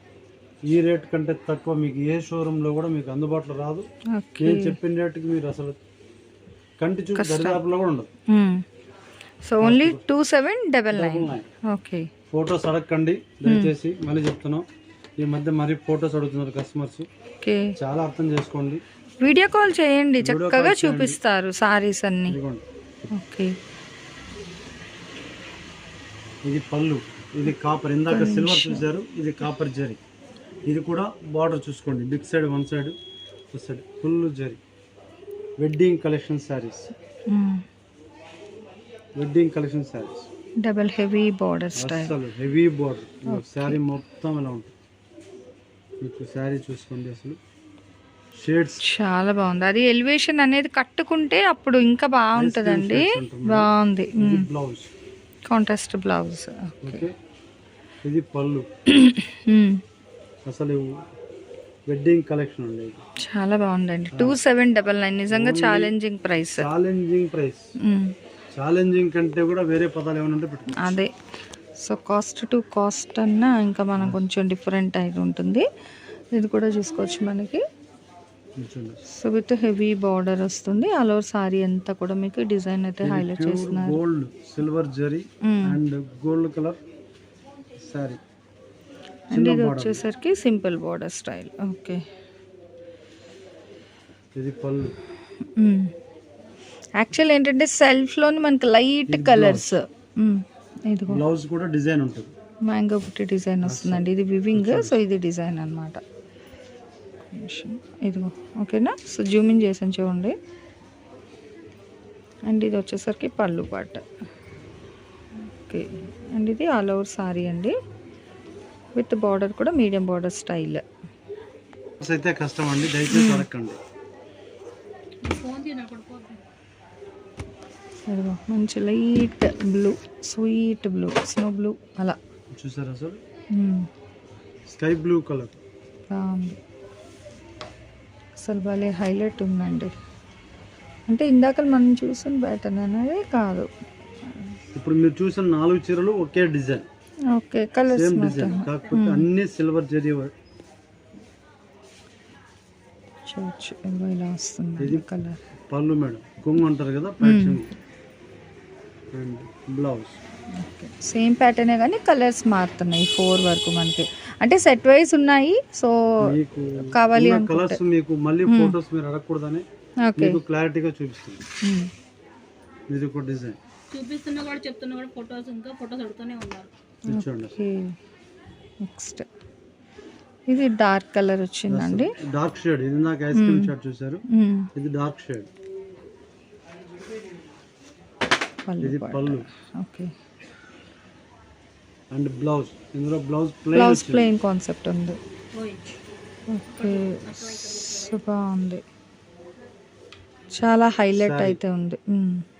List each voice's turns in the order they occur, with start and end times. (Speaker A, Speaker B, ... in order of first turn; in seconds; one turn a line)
Speaker A: 0.6-3.9
Speaker B: 4.1-4.8
Speaker A: 4.4-5.8
Speaker A: 6.8-8.1
Speaker B: 7.2-7.6
Speaker B: 8.3-8.6
Speaker B: 9.4-12.1
Speaker A: 9.6-10.0
Speaker A: 10.9-11.5
Speaker A: 12.3-14.7
Speaker B: 13.4-13.7
Speaker A: 15.2-17.1
Speaker B: 17.4-17.7
Speaker A: 17.8-18.8
Speaker B: 19.2-22.4
Speaker A: 20.2-21.2
Speaker A: 22.3-22.6
Speaker B: 23.1-23.6
Speaker A: 26.4-30.0
Speaker B: 28.1-28.8
Speaker A: 30.6-33.0
Speaker A: 33.5-34.6
Speaker A: 35.6-36.9
Speaker B: 37.3-37.6
Speaker A: 39.1-40.3
Speaker B: 40.6-42.1
Speaker A: 41.7-44.7
Speaker B: 43.3-43.8
Speaker A: 46.0-47.4
Speaker A: 48.3-48.8
Speaker B: 48.8-54.5
Speaker A: 52.4-54.9
Speaker B: 55.5-57.0
Speaker A: 56.8-57.1
Speaker A: 58.0-58.7
Speaker B: 58.9-59.8
Speaker A: 60.4-61.0
Speaker A: 61.9-63.0
Speaker B: 63.2-66.7
Speaker A: 64.1-64.4
Speaker A: 65.3-65.9
Speaker A: 66.5-67.7
Speaker B: 67.8-68.1
Speaker A: 68.5-71.0
Speaker B: 70.8-71.1
Speaker B: 71.8-75.7
Speaker A: 74.0-74.2
Speaker B: 76.3-77.6
Speaker A: 78.6-79.0
Speaker B: 79.1-84.0
Speaker A: 83.0-86.8
Speaker B: 85.4-85.8
Speaker A: 87.8-88.2
Speaker A: 89.3-90.0
Speaker B: 89.3-92.0
Speaker A: 94.3-95.0
Speaker B: 95.6-95.9
Speaker B: 97.0-101.2
Speaker A: 99.1-99.8
Speaker A: 101.1-102.3
Speaker B: 102.6-106.0
Speaker A: 103.6-105.0
Speaker B: 107.3-110.4
Speaker B: 112.5-114.0
Speaker B: 115.6-117.8
Speaker B: 118.9-120.8
Speaker A: 122.0-123.8
Speaker B: 123.1-123.4
Speaker C: 125.2-126.4
Speaker B: 128.1-132.2
Speaker A: 132.5-133.2
Speaker B: 133.5-133.9
Speaker A: 134.7-135.6
Speaker B: 136.1-136.6
Speaker B: 138.4-139.9
Speaker B: 141.1-143.7
Speaker A: 144.7-146.9
Speaker B: 147.3-149.2
Speaker A: 147.9-150.3
Speaker C: 148.5-148.8
Speaker B: 153.3-155.4
Speaker A: 154.8-155.1
Speaker A: 155.7-157.7
Speaker B: 157.2-157.6
Speaker A: 159.1-160.2
Speaker B: 160.6-166.3
Speaker A: 166.2-171.4
Speaker B: 166.9-167.8
Speaker B: 168.5-168.8
Speaker B: 170.0-170.4
Speaker B: 171.6-171.9
Speaker A: 172.9-173.6
Speaker C: 173.9-176.7
Speaker A: 177.1-177.6
Speaker B: 177.1-177.9
Speaker B: 178.8-179.2
Speaker B: 180.5-182.1
Speaker A: 181.7-185.5
Speaker B: 183.3-183.7
Speaker B: 184.3-184.7
Speaker B: 188.7-190.1
Speaker A: 188.8-189.5
Speaker A: 192.1-194.3
Speaker B: 193.7-195.2
Speaker C: 195.5-195.8
Speaker B: 196.5-198.8
Speaker C: 196.7-198.2
Speaker B: 200.5-202.4
Speaker A: 201.1-201.6